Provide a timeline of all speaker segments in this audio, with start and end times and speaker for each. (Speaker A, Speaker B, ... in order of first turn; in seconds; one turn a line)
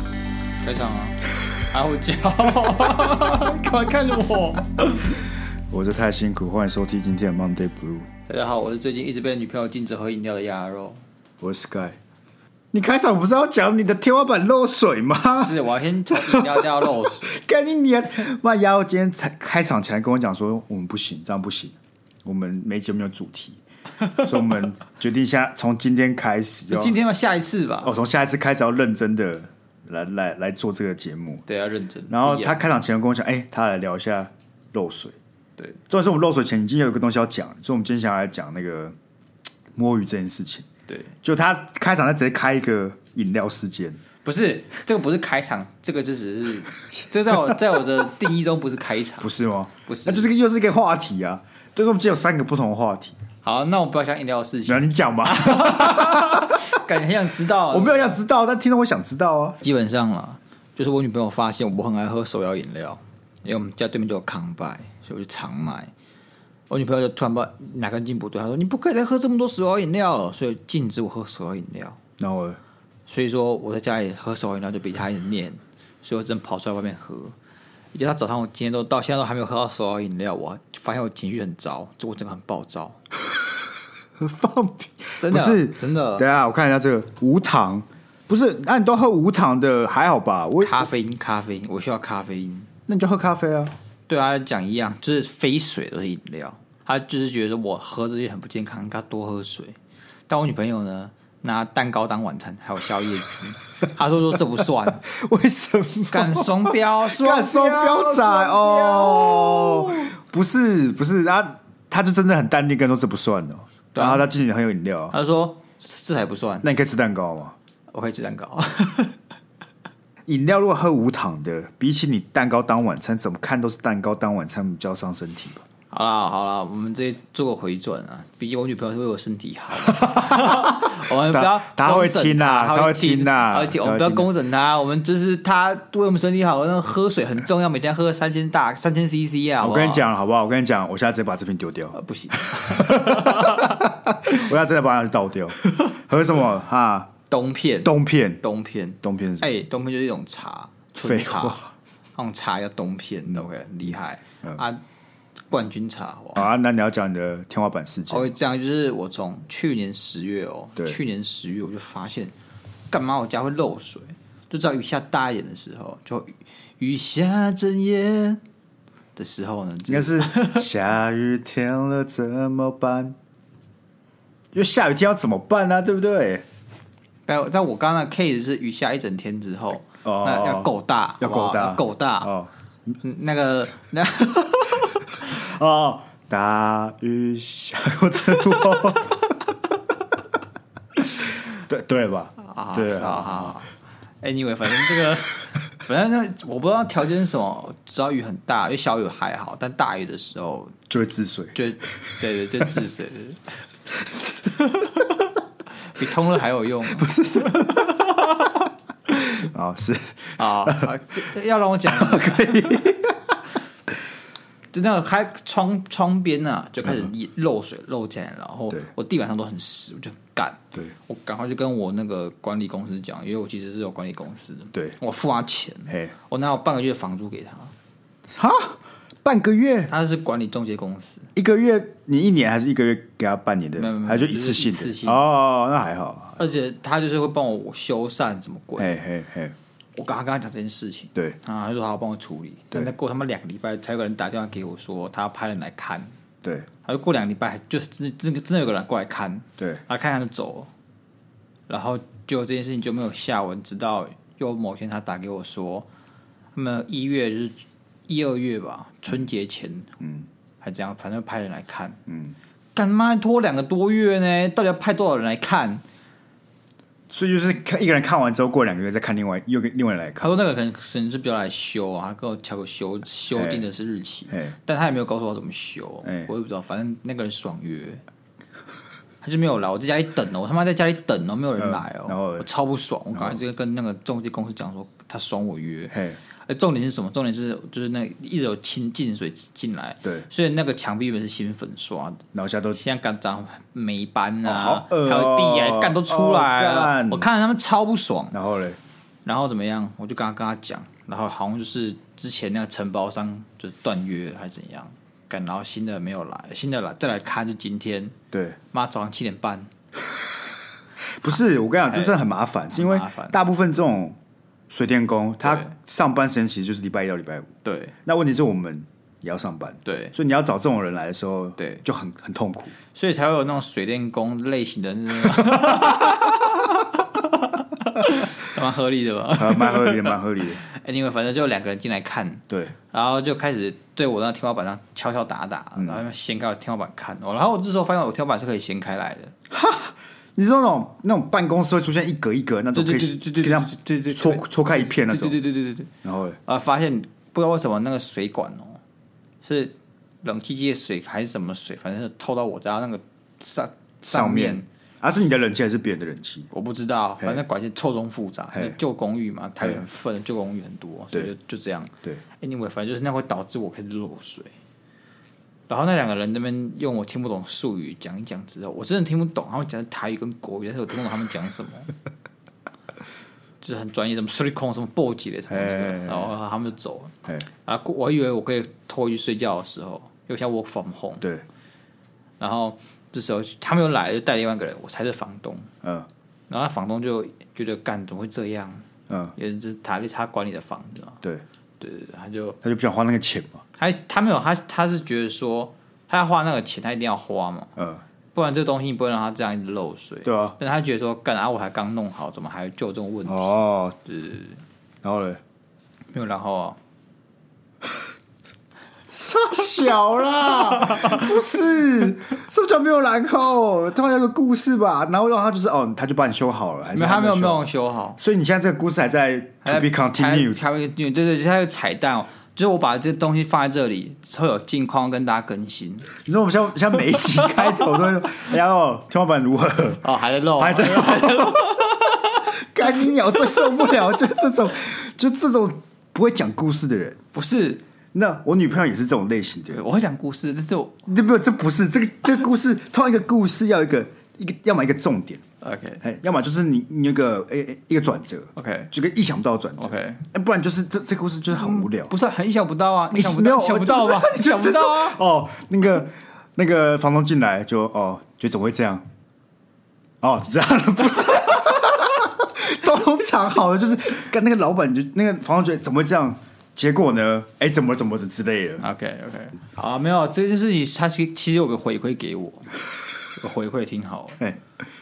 Speaker A: 0.6-5.2
Speaker B: 5.7-8.1
Speaker A: 8.3-11.0
Speaker B: 11.4-12.0
Speaker B: 12.7-23.6
Speaker A: 15.4-17.4
Speaker B: 24.1-26.9
Speaker A: 26.7-27.9
Speaker B: 27.8-31.4
Speaker A: 31.5-32.6
Speaker B: 32.1-35.2
Speaker B: 35.9-39.0
Speaker B: 39.8-40.7
Speaker A: 40.9-41.1
Speaker B: 41.2-44.0
Speaker A: 44.2-49.3
Speaker B: 49.2-53.2
Speaker A: 49.9-50.3
Speaker A: 53.4-58.2
Speaker B: 54.7-56.8
Speaker B: 57.7-59.6
Speaker A: 59.6-65.9
Speaker A: 66.7-72.0
Speaker B: 72.2-72.6
Speaker A: 73.1-77.3
Speaker A: 77.9-83.0
Speaker B: 84.2-90.8
Speaker A: 85.2-86.2
Speaker A: 90.6-92.7
Speaker B: 92.9-93.7
Speaker A: 94.1-99.8
Speaker A: 100.3-105.0
Speaker B: 105.0-115.1
Speaker A: 106.1-110.1
Speaker A: 113.9-114.3
Speaker A: 115.1-116.7
Speaker B: 116.6-117.5
Speaker A: 117.9-119.2
Speaker B: 120.3-125.7
Speaker A: 125.9-140.1
Speaker B: 129.9-134.3
Speaker B: 139.6-147.1
Speaker A: 141.9-143.8
Speaker A: 147.3-151.6
Speaker B: 147.8-148.4
Speaker B: 149.0-149.5
Speaker B: 151.0-151.7
Speaker A: 152.2-154.8
Speaker A: 155.5-156.4
Speaker B: 156.3-158.4
Speaker A: 158.1-162.3
Speaker A: 162.9-168.4
Speaker A: 169.2-170.7
Speaker B: 169.9-173.2
Speaker B: 174.5-176.4
Speaker A: 177.3-182.3
Speaker B: 180.0-182.5
Speaker A: 183.0-185.2
Speaker B: 185.1-189.3
Speaker B: 191.2-193.6
Speaker A: 192.4-193.7
Speaker A: 194.2-200.8
Speaker B: 200.9-201.6
Speaker A: 201.5-203.5
Speaker A: 204.6-204.9
Speaker A: 205.8-207.1
Speaker B: 206.9-210.9
Speaker A: 210.4-212.9
Speaker B: 211.9-213.4
Speaker A: 214.7-227.7
Speaker B: 216.8-217.1
Speaker B: 228.3-229.9
Speaker A: 229.9-231.3
Speaker B: 231.4-236.4
Speaker A: 233.8-235.2
Speaker A: 236.4-239.0
Speaker B: 238.8-239.6
Speaker A: 240.0-246.1
Speaker A: 246.8-250.7
Speaker A: 251.7-255.9
Speaker A: 256.6-259.9
Speaker B: 260.0-260.3
Speaker A: 260.6-262.0
Speaker B: 262.1-262.4
Speaker A: 262.8-265.8
Speaker B: 267.1-270.4
Speaker A: 270.2-278.0
Speaker B: 273.4-273.6
Speaker B: 276.0-276.3
Speaker A: 279.2-285.9
Speaker B: 281.6-282.5
Speaker B: 285.9-286.2
Speaker A: 286.5-292.2
Speaker B: 292.3-292.8
Speaker A: 292.8-298.4
Speaker B: 294.4-297.3
Speaker B: 298.3-298.8
Speaker A: 299.2-308.2
Speaker B: 308.3-308.6
Speaker A: 308.7-309.7
Speaker B: 311.2-314.2
Speaker A: 311.9-312.2
Speaker A: 312.7-313.4
Speaker B: 314.7-317.5
Speaker A: 315.4-315.7
Speaker A: 317.6-317.9
Speaker B: 318.1-322.7
Speaker A: 319.9-320.1
Speaker A: 321.6-321.8
Speaker A: 322.9-339.3
Speaker B: 329.4-330.6
Speaker B: 339.5-345.4
Speaker A: 342.7-345.9
Speaker B: 346.0-346.4
Speaker A: 346.5-348.8
Speaker A: 349.4-354.7
Speaker B: 354.1-356.5
Speaker A: 356.5-364.5
Speaker A: 365.7-371.9
Speaker A: 373.6-377.1
Speaker B: 375.5-376.3
Speaker A: 377.6-381.2
Speaker A: 382.4-385.7
Speaker B: 385.8-386.1
Speaker A: 386.5-391.2
Speaker B: 389.1-389.3
Speaker A: 391.8-392.6
Speaker B: 392.6-393.6
Speaker A: 393.8-397.7
Speaker B: 397.8-398.0
Speaker A: 398.4-404.6
Speaker B: 400.2-400.6
Speaker B: 403.3-404.0
Speaker B: 405.0-405.4
Speaker A: 406.1-406.8
Speaker B: 409.1-420.6
Speaker A: 416.9-418.2
Speaker A: 419.6-426.1
Speaker B: 426.2-430.1
Speaker A: 427.4-428.1
Speaker A: 430.0-432.4
Speaker B: 430.6-437.2
Speaker A: 437.3-437.8
Speaker B: 438.1-439.8
Speaker A: 439.7-441.1
Speaker B: 441.1-445.4
Speaker A: 445.6-446.0
Speaker B: 446.0-452.1
Speaker A: 448.6-448.9
Speaker A: 449.8-450.2
Speaker A: 451.5-455.2
Speaker B: 453.1-459.1
Speaker B: 460.2-468.8
Speaker A: 468.8-472.7
Speaker A: 473.3-474.4